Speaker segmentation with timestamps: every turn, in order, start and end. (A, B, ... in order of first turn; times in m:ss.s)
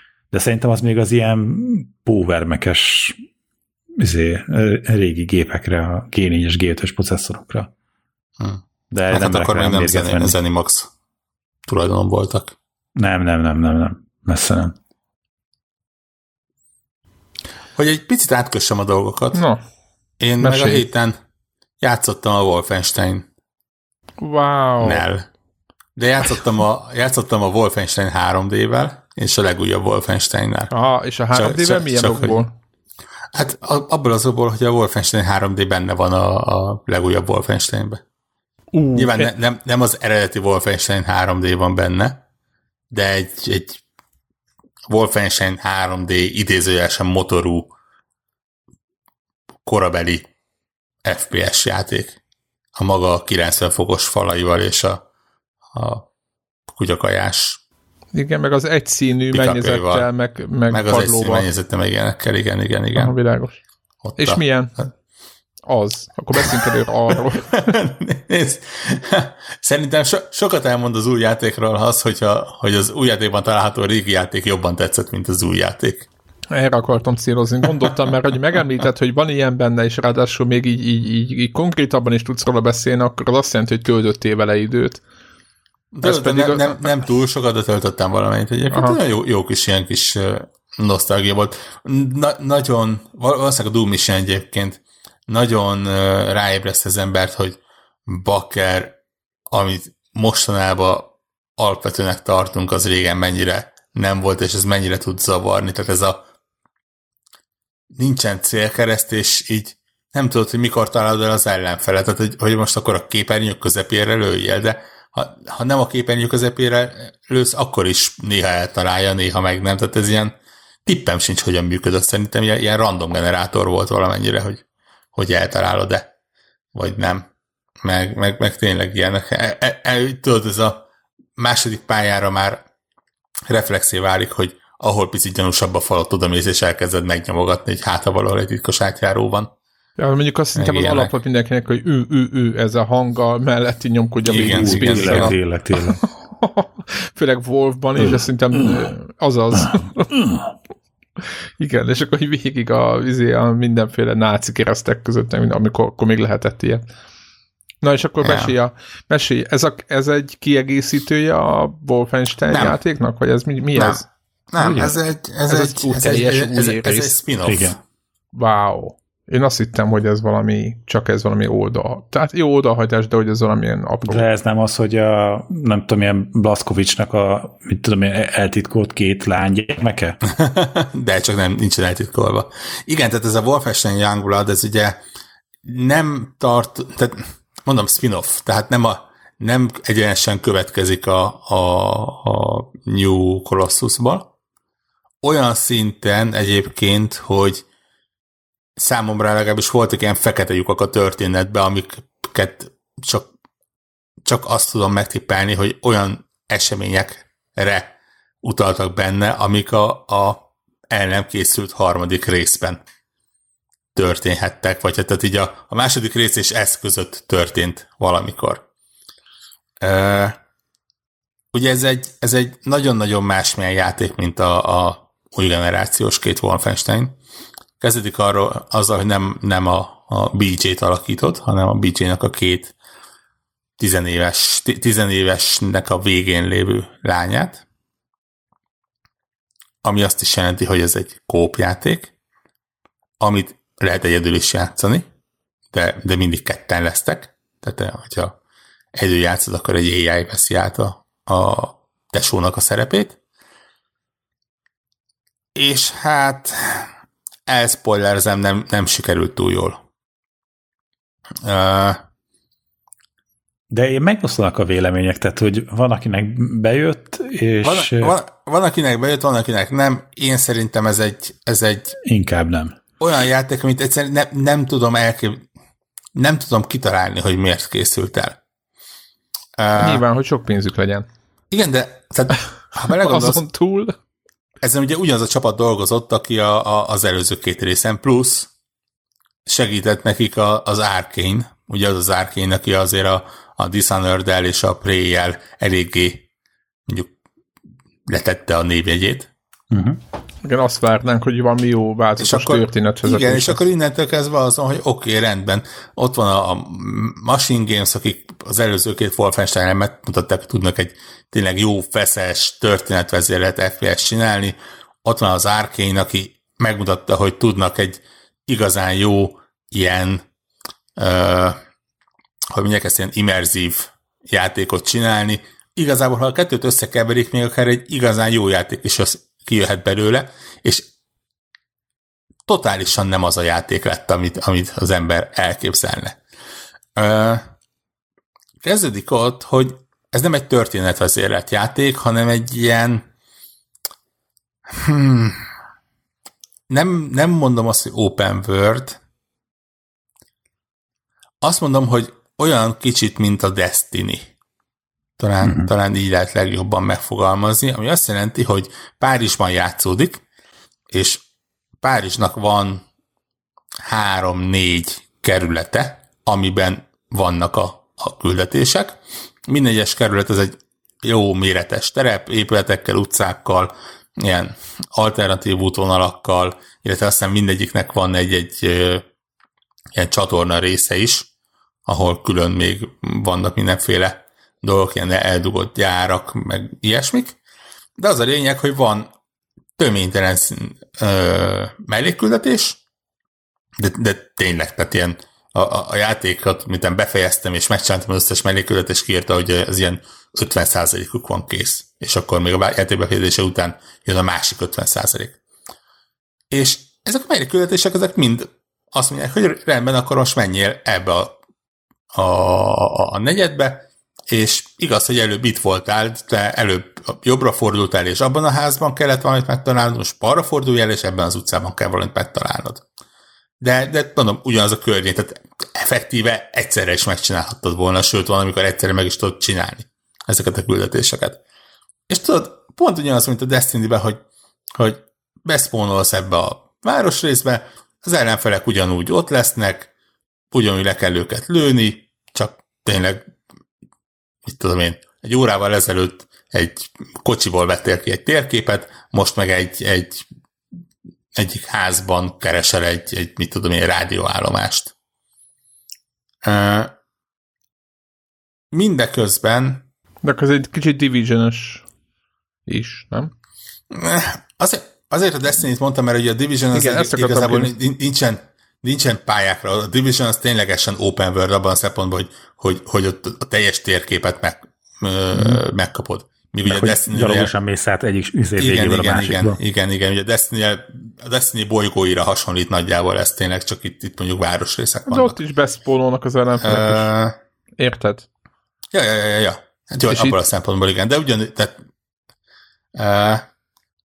0:00.3-0:03.2 A
0:04.0-0:07.7 A
0:08.4-0:10.9 B
0:08.9-0:10.4 A
0:11.7-0:12.6 B
0:13.0-0:14.8 A
0:17.8-0:19.4 B
0:19.3-0:19.6 C
0:20.2-0:21.2 B
0:20.4-0:20.8 C
0:21.8-0:23.2 B
0:24.2-0:25.0 C
0:24.8-0:25.2 B
0:26.0-0:30.7 B
0:30.7-0:32.5 C
0:31.3-0:32.4 B
0:33.3-0:38.0 B
0:38.7-0:39.3 C
0:39.0-0:42.2 B
0:42.9-0:43.8 B
0:44.9-0:47.7 B
0:49.6-0:50.3 B
0:51.0-0:52.2 B
0:52.7-0:55.0 B
0:55.7-0:56.1 B
0:56.7-0:57.6 B
0:58.1-1:01.5 C
0:59.3-1:00.1 B
1:00.7-1:03.2 B
1:03.0-1:03.6 C
1:04.0-1:04.4 B
1:04.2-1:04.9 C
1:05.6-1:07.7 C
1:06.4-1:16.1 B
1:16.5-1:25.0 C
1:25.9-1:39.0 B
1:26.0-1:26.9 C
1:28.7-1:29.0 C
1:39.5-1:46.2 B
1:48.0-2:00.3 B
2:00.8-2:04.6 B
2:05.1-2:06.1 B
2:06.7-2:07.2 B
2:07.8-2:10.8 B
2:11.4-2:12.6 B
2:13.5-2:19.5 B
2:20.0-2:30.1 C
2:20.6-2:21.1 B
2:24.2-2:25.3 B
2:24.5-2:26.0 A
2:31.6-2:36.8 C
2:37.8-2:44.1 C
2:38.2-2:38.5 B
2:42.5-2:42.8 B
2:43.8-2:47.8 B
2:44.6-2:44.9 A
2:45.5-2:47.1 C
2:47.4-2:47.8 A
2:48.3-2:54.2 C
2:54.1-3:00.2 A
3:00.3-3:05.0 B
3:05.6-3:14.3 B
3:15.2-3:17.6 B
3:18.8-3:23.3 B
3:24.2-3:32.8 B
3:33.9-3:38.6 B
3:39.8-3:40.4 B
3:41.5-3:47.2 B
3:47.8-3:52.7 B
3:53.8-3:57.6 B
3:59.8-4:02.1 B
4:03.2-4:05.1 B
4:05.7-4:08.4 B
4:08.9-4:13.2 B
4:15.5-4:16.9 B
4:17.5-4:19.8 B
4:21.4-4:22.0 B
4:23.7-4:28.1 A
4:27.6-4:32.0 B
4:32.0-4:32.8 A
4:33.0-4:35.4 B
4:36.1-4:38.4 B
4:39.6-4:40.0 B
4:39.8-4:41.1 C
4:41.5-4:43.4 B
4:42.8-4:44.0 C
4:44.6-4:48.5 B
4:49.4-4:56.2 B
4:58.1-4:59.3 B
4:59.7-5:00.0 A
5:00.4-5:03.6 C
5:02.2-5:20.2 B
5:21.0-5:21.6 B
5:22.5-5:30.9 B
5:32.5-5:36.2 B
5:37.0-5:37.5 B
5:38.6-5:43.0 B
5:44.7-5:45.4 B
5:46.7-5:49.0 B
5:51.4-5:54.3 B
5:55.2-6:00.2 B
5:55.4-5:55.7 A
6:00.9-6:01.2 B
6:01.8-6:02.8 B
6:03.8-6:19.0 B
6:19.9-6:21.3 B
6:21.8-6:27.4 B
6:28.0-6:29.1 B
6:29.8-6:32.8 B
6:33.8-6:45.4 B
6:46.5-6:51.4 B
6:52.1-7:02.8 B
7:03.6-7:11.4 B
7:12.1-7:14.2 B
7:14.7-7:19.9 B
7:20.5-7:23.2 B
7:24.4-7:30.2 B
7:31.3-7:34.9 B
7:36.4-7:36.9 B
7:38.7-7:39.8 B
7:40.2-7:41.8 C
7:42.7-7:43.3 C
7:43.9-7:57.5 B
7:46.7-7:47.7 C
7:55.3-7:55.6 A
7:56.7-7:59.6 A
7:58.6-8:05.3 B
8:05.1-8:07.1 C
8:06.6-8:07.3 B
8:07.8-8:08.3 C
8:08.9-8:11.8 B
8:10.0-8:10.4 C
8:12.9-8:13.4 B